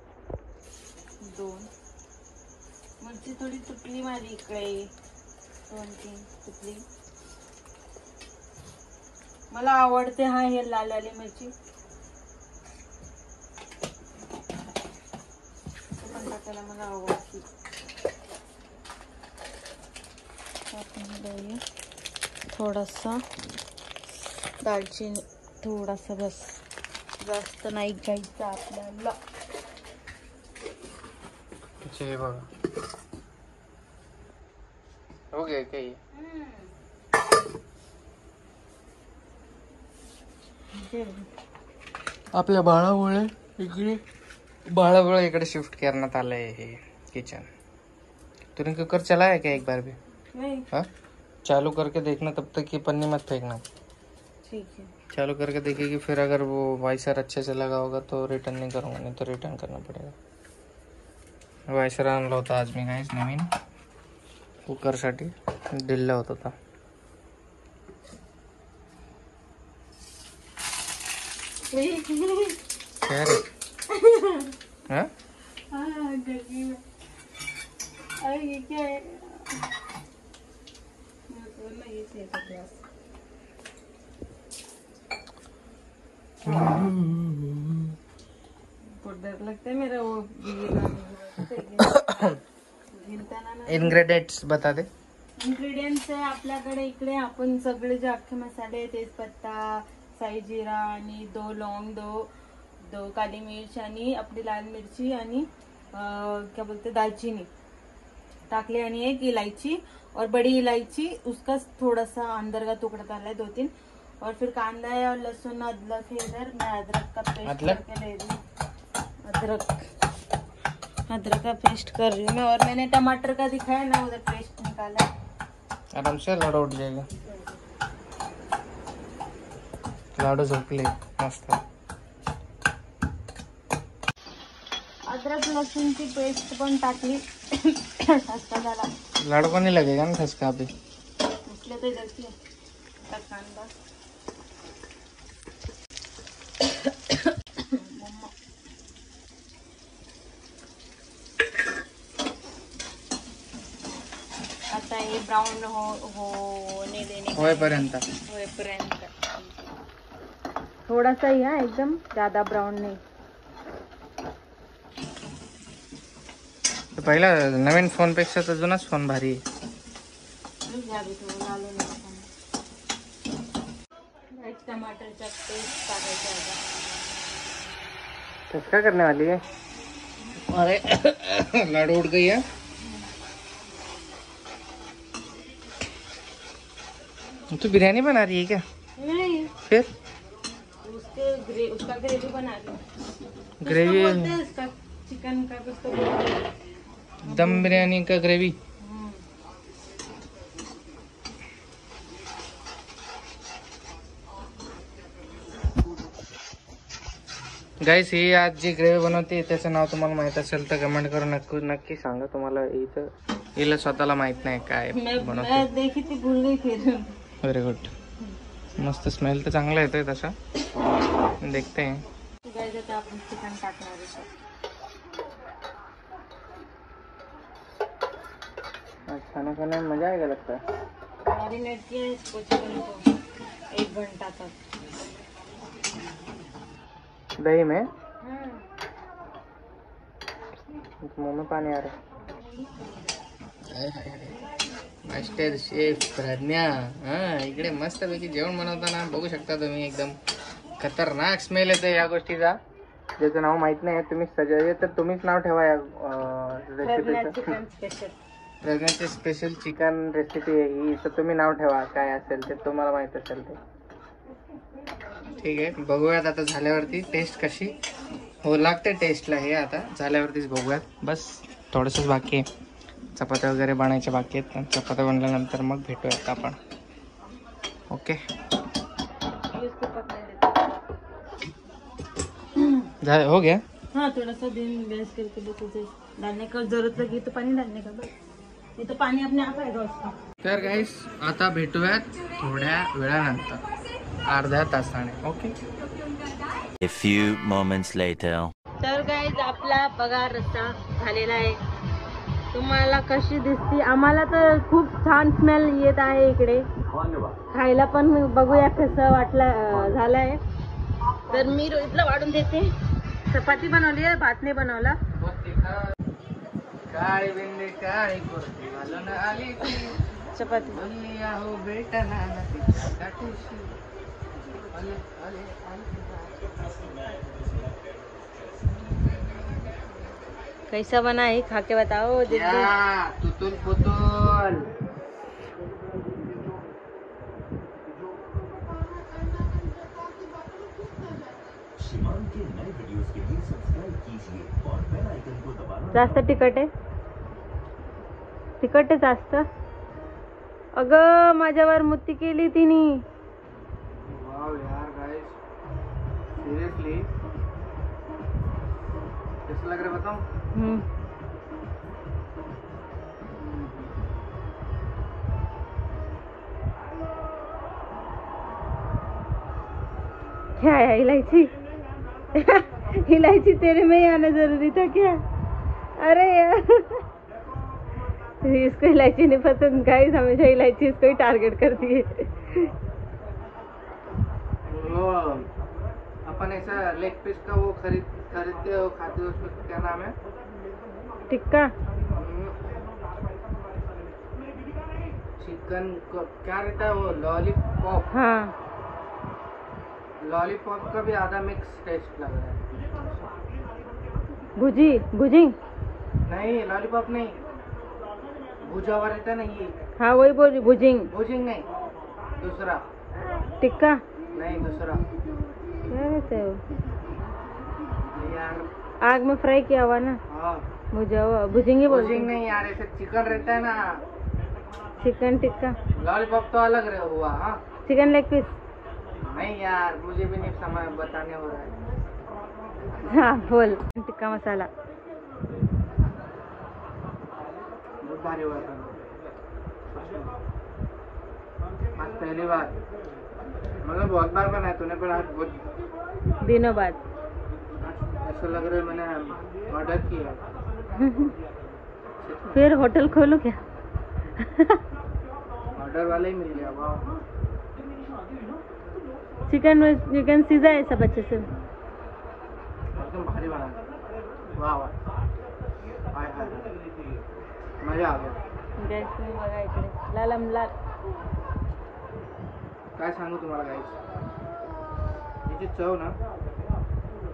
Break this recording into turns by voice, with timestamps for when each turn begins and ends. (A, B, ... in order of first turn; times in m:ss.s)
0:01.2-0:01.7 A
0:03.0-0:04.9 A
0:05.7-0:06.8 A
0:09.5-0:11.5 A
0:16.0-0:17.5 A
0:20.7-0:21.6 A
0:22.5-0:23.2 A
0:24.6-0:26.6 A
0:27.2-0:29.2 A
0:31.8-0:32.5 B
0:35.3-0:36.0 B
0:36.2-0:36.7 A
0:40.7-0:41.3 A
0:42.4-0:44.0 B
0:44.7-0:47.5 B
0:48.6-0:50.0 B
0:50.4-0:50.7 A
0:51.5-0:53.6 B
0:54.4-0:54.9 A
0:55.1-1:00.2 B
1:01.7-1:03.5 B
1:04.7-1:06.6 B
1:11.7-1:12.6 A
1:13.0-1:13.4 B
1:13.9-1:14.5 A
1:15.7-1:16.8 A
1:18.2-1:19.6 A
1:21.3-1:22.8 A
1:26.4-1:27.9 B
1:29.0-1:32.0 A
1:31.8-1:32.4 B
1:32.9-1:34.0 A
1:33.7-1:34.9 B
1:35.4-1:42.3 A
1:42.8-1:47.5 A
1:48.5-1:58.4 A
1:57.4-1:57.8 B
1:59.3-1:59.9 A
2:01.1-2:05.1 A
2:06.0-2:07.1 B
2:10.2-2:11.6 B
2:15.1-2:18.9 A
2:19.2-2:20.7 B
2:21.5-2:22.3 A
2:23.0-2:23.7 A
2:26.9-2:28.3 A
2:34.7-2:39.6 A
2:37.4-2:38.0 B
2:40.9-2:43.0 A
2:47.0-2:49.4 B
2:50.7-2:52.3 A
2:54.3-2:56.6 A
2:58.5-2:59.4 B
3:00.4-3:02.4 B
3:07.5-3:08.6 B
3:09.0-3:09.5 A
3:10.8-3:12.8 A
3:13.6-3:14.4 B
3:13.6-3:16.5 A
3:17.2-3:18.6 B
3:17.2-3:17.9 A
3:18.8-3:19.2 A
3:27.8-3:35.7 B
3:34.9-3:37.2 A
3:37.4-3:37.9 B
3:38.8-3:40.3 B
3:41.4-3:42.0 B
3:42.5-3:44.3 A
3:49.1-3:50.6 B
3:51.2-3:53.0 A
3:53.7-3:54.5 A
3:57.4-3:57.9 B
3:58.2-3:58.7 A
4:01.0-4:01.9 B
4:03.7-4:04.4 B
4:05.1-4:10.2 B
4:10.8-4:12.6 B
4:13.2-4:17.6 B
4:16.8-4:18.2 A
4:18.6-4:23.6 B
4:25.4-4:27.8 B
4:28.4-4:32.5 B
4:33.2-4:36.6 B
4:37.9-4:38.2 B
4:39.3-4:40.8 A
4:42.6-4:42.9 A
4:43.0-4:43.6 B
4:43.9-4:48.1 A
4:48.8-4:50.2 A
4:50.4-4:53.6 B
4:54.3-4:55.5 B
4:56.8-4:58.5 C
4:58.8-5:01.6 A
5:02.5-5:06.6 A
5:07.5-5:10.4 A
5:11.3-5:12.7 A
5:13.3-5:15.0 A
5:15.2-5:15.9 B
5:16.9-5:20.0 B
5:20.3-5:20.8 A
5:20.6-5:23.7 B
5:24.7-5:26.3 B
5:30.7-5:32.8 A
5:32.3-5:34.7 B
5:42.1-5:43.6 C
5:44.2-5:44.5 C
5:45.9-5:46.7 A
5:48.6-5:49.4 A
5:50.8-5:53.0 A
5:54.0-5:55.4 B
5:56.4-5:57.1 B
5:59.5-6:00.2 B
6:00.5-6:00.8 A
6:03.4-6:03.9 B
6:10.6-6:11.5 A
6:12.3-6:15.2 A
6:16.0-6:17.0 A
6:18.4-6:22.7 A
6:24.7-6:25.5 B
6:26.2-6:30.2 B
6:31.3-6:31.7 A
6:32.1-6:32.6 B
6:35.4-6:38.1 B
6:38.1-6:38.5 A
6:40.2-6:42.6 B
6:44.6-6:45.6 A
6:46.3-6:47.4 B
6:48.6-6:49.7 B
6:50.0-6:51.1 A
6:51.1-6:51.7 B
6:52.4-6:52.8 B
6:53.6-6:54.0 A
6:54.3-6:55.0 B
6:55.9-6:56.6 A
6:58.1-6:58.7 B
6:59.0-7:00.2 A
7:00.3-7:00.6 B
7:00.9-7:02.3 A
7:01.9-7:04.0 B
7:05.0-7:05.8 A
7:05.9-7:07.6 B
7:07.8-7:08.5 A
7:09.3-7:11.7 B
7:13.0-7:14.7 A
7:18.0-7:19.0 B
7:19.9-7:20.4 B
7:22.0-7:22.8 B
7:23.8-7:25.6 B
7:26.4-7:27.0 A
7:27.8-7:30.4 B
7:31.0-7:31.3 A
7:32.2-7:32.7 B
7:32.5-7:33.6 A
7:34.4-7:34.8 A
7:35.7-7:37.1 B
7:39.5-7:41.5 A
7:43.0-7:43.8 B
7:44.6-7:45.0 B
7:46.1-7:46.8 B
7:47.8-7:48.4 B
7:48.8-7:50.7 A
7:53.0-7:54.0 B
7:55.5-7:56.2 B